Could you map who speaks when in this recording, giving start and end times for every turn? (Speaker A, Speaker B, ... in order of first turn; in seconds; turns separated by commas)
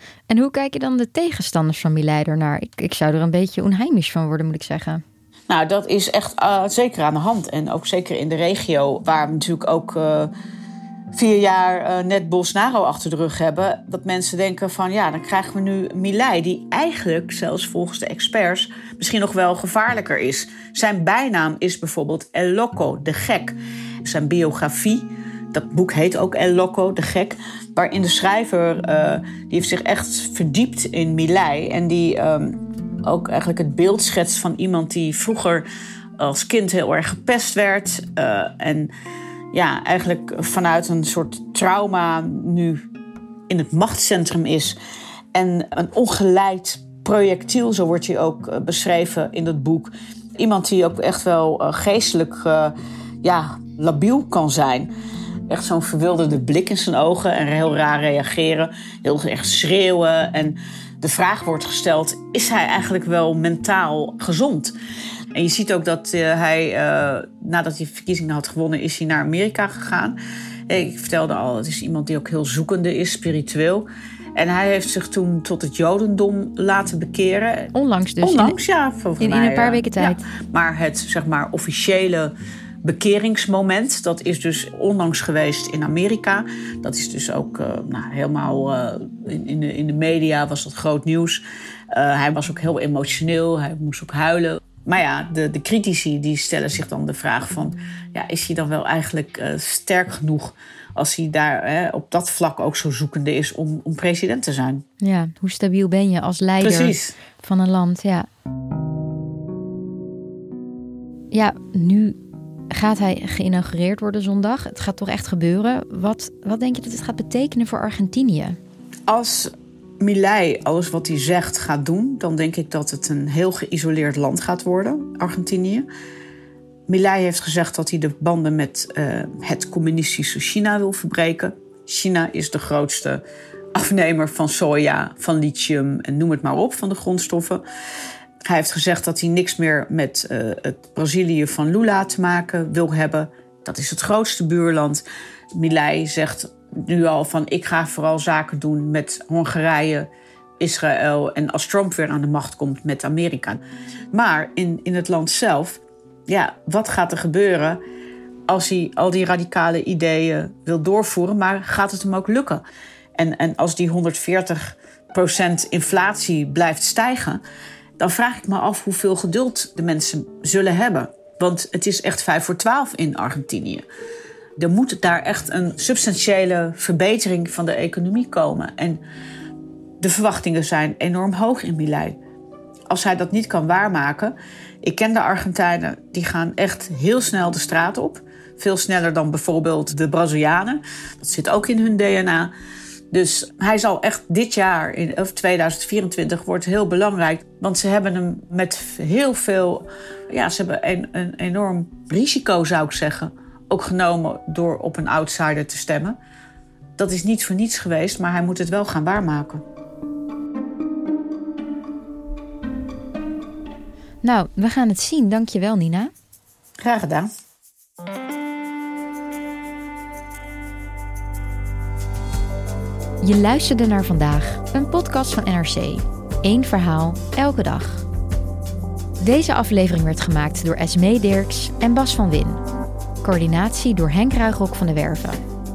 Speaker A: 0.3-5.0, Speaker B: 5.5-10.3, Speaker B: 11.1-35.6, Speaker B: 36.2-38.9, Speaker B: 39.5-42.8, Speaker B: 43.5-44.8, Speaker B: 45.3-54.9, Speaker B: 55.5-64.8, Speaker B: 65.3-70.2, Speaker B: 70.7-104.8, Speaker A: 77.7-78.6, Speaker A: 79.2-80.2, Speaker A: 105.0-108.3, Speaker B: 106.6-107.1, Speaker A: 111.3-112.2, Speaker A: 112.7-118.6, Speaker B: 119.1-125.9, Speaker B: 126.9-133.2, Speaker B: 133.8-137.6, Speaker B: 138.5-145.0, Speaker B: 145.6-150.1, Speaker B: 150.6-157.8, Speaker B: 158.5-162.6, Speaker B: 163.2-167.4, Speaker B: 168.0-173.8, Speaker B: 174.6-179.0, Speaker B: 180.0-182.2, Speaker B: 182.9-192.5, Speaker B: 193.1-206.2, Speaker B: 207.0-209.6, Speaker A: 214.2-216.1, Speaker B: 216.8-217.3, Speaker A: 223.2-228.1, Speaker A: 229.2-232.6, Speaker A: 233.2-235.4